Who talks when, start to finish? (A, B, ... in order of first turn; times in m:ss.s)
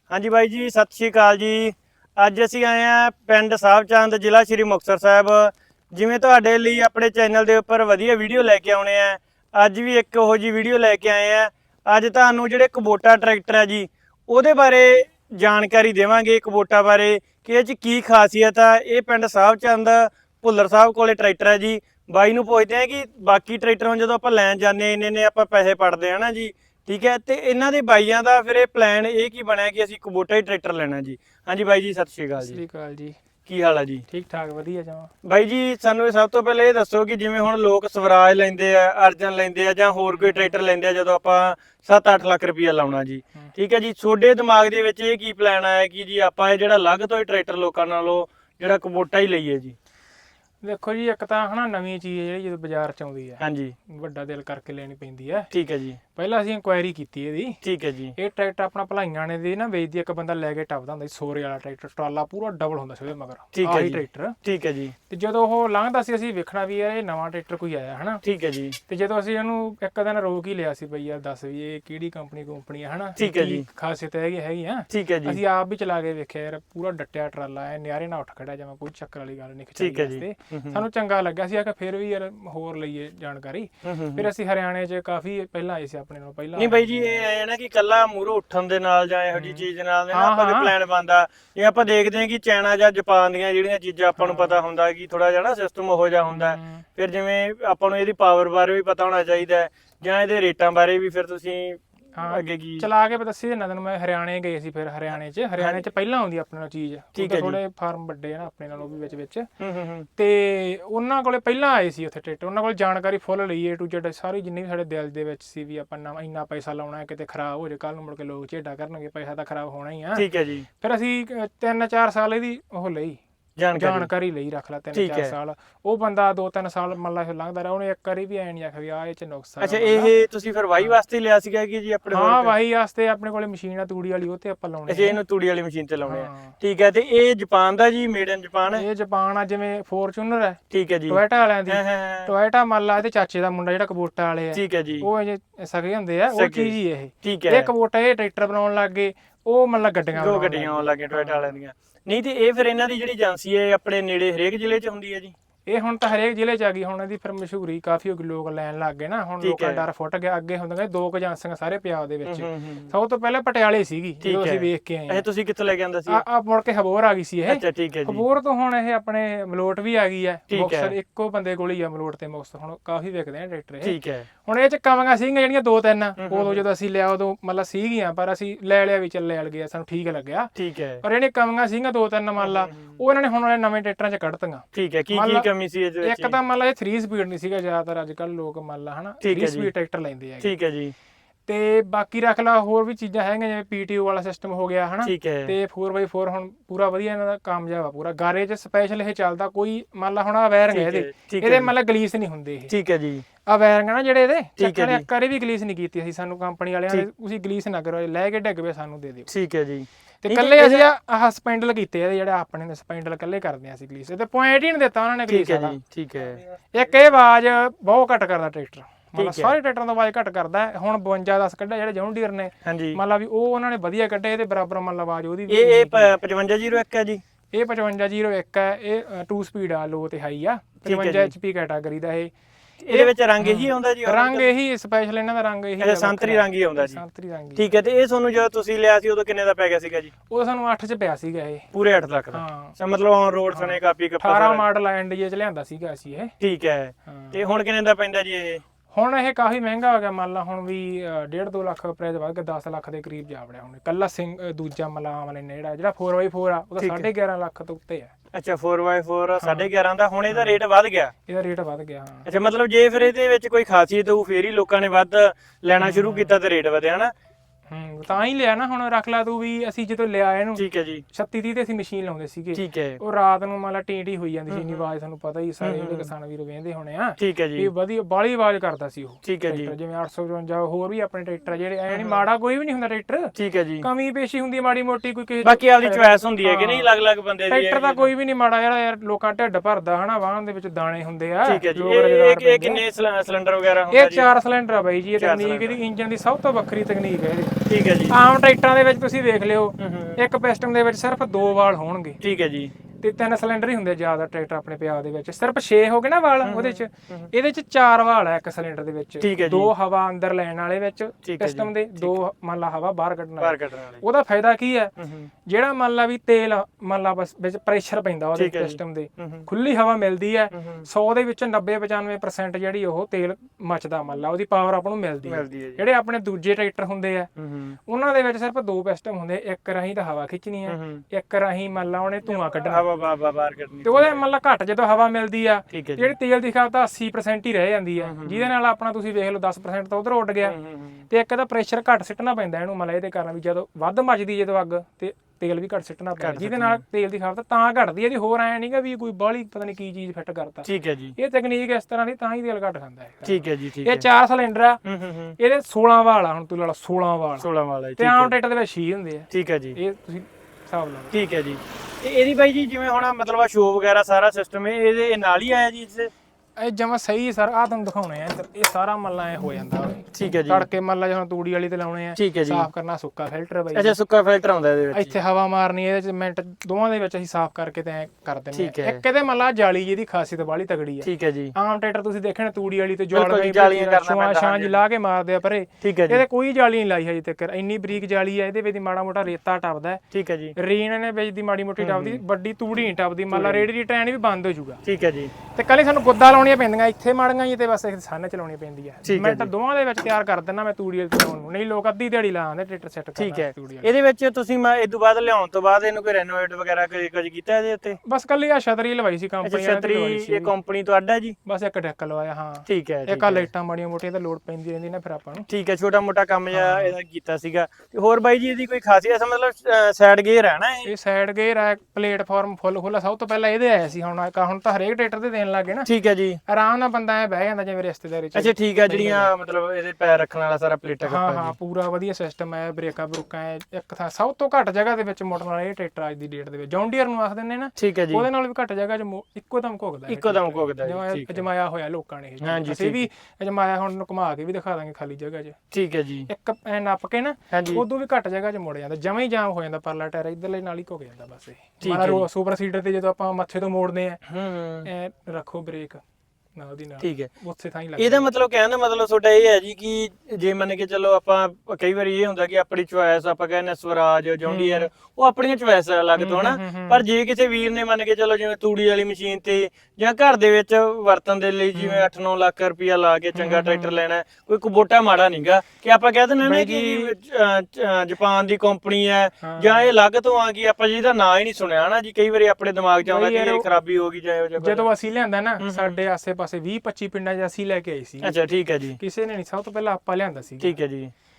0:00.1-0:32.6 A
0:32.4-0:33.2 B
0:33.4-0:34.0 A
0:34.1-0:35.1 B
0:35.2-0:49.8 A
0:40.1-0:40.5 B
0:50.6-0:55.5 B
0:53.4-0:53.7 A
0:55.5-0:56.0 A
0:56.1-0:57.6 B
0:57.6-0:58.1 A
0:58.2-1:04.4 B
1:03.5-1:04.9 A
1:05.1-1:08.2 B
1:08.2-1:08.8 A
1:08.9-1:27.2 B
1:13.2-1:13.6 A
1:14.9-1:15.4 A
1:19.8-1:20.8 A
1:23.8-1:24.3 A
1:26.6-1:42.9 A
1:29.3-1:30.7 B
1:34.2-1:34.6 B
1:36.3-1:36.8 B
1:42.2-1:49.5 B
1:45.6-1:45.8 A
1:47.1-1:47.6 A
1:49.6-1:50.1 A
1:50.2-2:00.3 B
2:00.2-2:00.6 A
2:00.8-2:03.2 B
2:03.6-2:04.1 A
2:03.7-2:10.1 B
2:04.9-2:05.3 A
2:09.6-2:12.5 A
2:12.1-2:15.2 B
2:14.9-2:18.8 A
2:16.0-2:16.5 B
2:18.7-2:31.5 B
2:20.7-2:22.3 A
2:24.5-2:25.1 A
2:26.3-2:27.7 A
2:30.1-2:35.3 A
2:35.7-2:45.2 B
2:39.4-2:39.8 A
2:42.2-2:42.9 A
2:44.2-2:46.2 A
2:46.1-3:05.5 B
2:47.4-2:48.2 A
2:50.5-2:50.9 A
2:53.8-2:54.3 A
2:56.2-2:56.6 A
3:00.6-3:01.0 A
3:02.4-3:02.9 A
3:04.7-3:06.4 A
3:06.0-3:10.5 B
3:09.2-3:09.7 A
3:10.4-3:10.9 A
3:11.5-3:22.7 B
3:15.0-3:15.6 A
3:20.7-3:21.7 A
3:22.7-3:23.2 A
3:23.4-3:29.3 B
3:24.6-3:25.0 A
3:29.3-3:30.9 A
3:30.2-3:35.8 B
3:35.3-3:36.4 A
3:36.7-3:46.1 B
3:39.2-3:39.5 A
3:42.6-3:43.0 A
3:45.5-3:47.2 A
3:47.5-3:52.3 B
3:50.8-3:51.3 A
3:52.8-3:54.5 A
3:52.9-3:57.7 B
3:55.8-3:57.0 A
3:57.6-4:00.1 A
4:00.3-4:01.7 B
4:01.7-4:04.6 A
4:02.3-4:02.8 B
4:03.5-4:06.3 B
4:06.4-4:08.6 A
4:07.1-4:07.4 B
4:08.9-4:18.1 B
4:16.8-4:17.1 A
4:18.3-4:21.1 A
4:19.4-4:19.7 B
4:20.3-4:20.6 B
4:21.2-4:22.2 B
4:22.2-4:27.1 A
4:25.8-4:26.4 B
4:27.7-4:46.9 B
4:30.5-4:31.0 A
4:32.5-4:33.0 A
4:34.5-4:34.9 A
4:35.6-4:36.1 A
4:37.2-4:37.7 A
4:39.2-4:39.7 A
4:41.9-4:42.2 A
4:43.3-4:43.9 A
4:45.4-4:48.1 A
4:47.5-4:52.8 B
4:51.4-4:54.3 A
4:53.9-4:57.6 B
4:55.2-4:55.8 A
4:57.7-4:58.1 A
4:58.1-5:02.2 B
4:59.8-5:00.2 A
5:02.2-5:02.7 A
5:03.0-5:14.9 B
5:06.4-5:07.3 A
5:09.2-5:09.7 A
5:11.2-5:12.2 A
5:13.4-5:14.0 A
5:15.0-5:15.3 A
5:15.4-5:27.3 B
5:18.3-5:19.4 A
5:20.5-5:20.9 A
5:25.2-5:25.8 A
5:27.4-5:27.8 A
5:27.9-5:32.8 B
5:30.7-5:31.0 A
5:32.6-5:34.2 A
5:33.8-5:40.6 B
5:35.7-5:36.1 A
5:38.0-5:38.5 A
5:40.4-5:41.0 A
5:41.1-5:54.8 B
5:46.2-5:46.8 A
5:50.6-5:51.1 A
5:53.2-5:54.0 A
5:54.8-5:55.4 A
5:55.4-6:01.2 B
5:57.4-5:58.3 A
5:59.3-5:59.8 A
6:01.1-6:06.1 A
6:06.6-6:14.0 B
6:10.1-6:10.7 A
6:12.2-6:12.7 A
6:13.7-6:15.1 A
6:14.9-6:30.0 B
6:18.5-6:19.0 A
6:21.0-6:21.5 A
6:23.1-6:24.8 A
6:25.8-6:26.2 A
6:30.1-6:30.5 A
6:30.6-6:34.8 B
6:31.8-6:32.2 A
6:33.3-6:33.7 A
6:34.8-6:35.3 A
6:35.5-6:43.9 B
6:39.0-6:39.5 A
6:43.2-6:48.0 A
6:48.0-6:50.5 B
6:49.4-6:51.4 A
6:51.4-6:55.5 B
6:52.7-6:53.5 A
6:55.5-7:00.9 A
6:56.5-6:57.0 B
7:00.8-7:05.9 B
7:05.8-7:06.4 A
7:06.5-7:09.3 B
7:08.3-7:11.5 A
7:11.0-7:25.6 B
7:17.8-7:18.3 A
7:20.1-7:21.4 A
7:22.4-7:23.1 A
7:25.7-7:26.3 A
7:26.3-7:34.2 B
7:27.5-7:27.8 A
7:31.8-7:32.2 A
7:34.3-7:34.9 A
7:34.8-7:36.0 B
7:36.6-7:38.3 B
7:37.0-7:37.3 A
7:38.0-8:04.8 A
7:44.4-7:44.9 B
7:46.2-7:47.0 B
7:51.7-7:52.1 B
7:53.3-7:54.0 B
7:56.4-7:57.1 B
7:59.4-7:59.9 B
8:03.0-8:03.7 B
8:04.6-8:08.4 B
8:05.6-8:06.0 A
8:08.2-8:09.0 A
8:09.0-8:10.8 B
8:10.6-8:11.1 A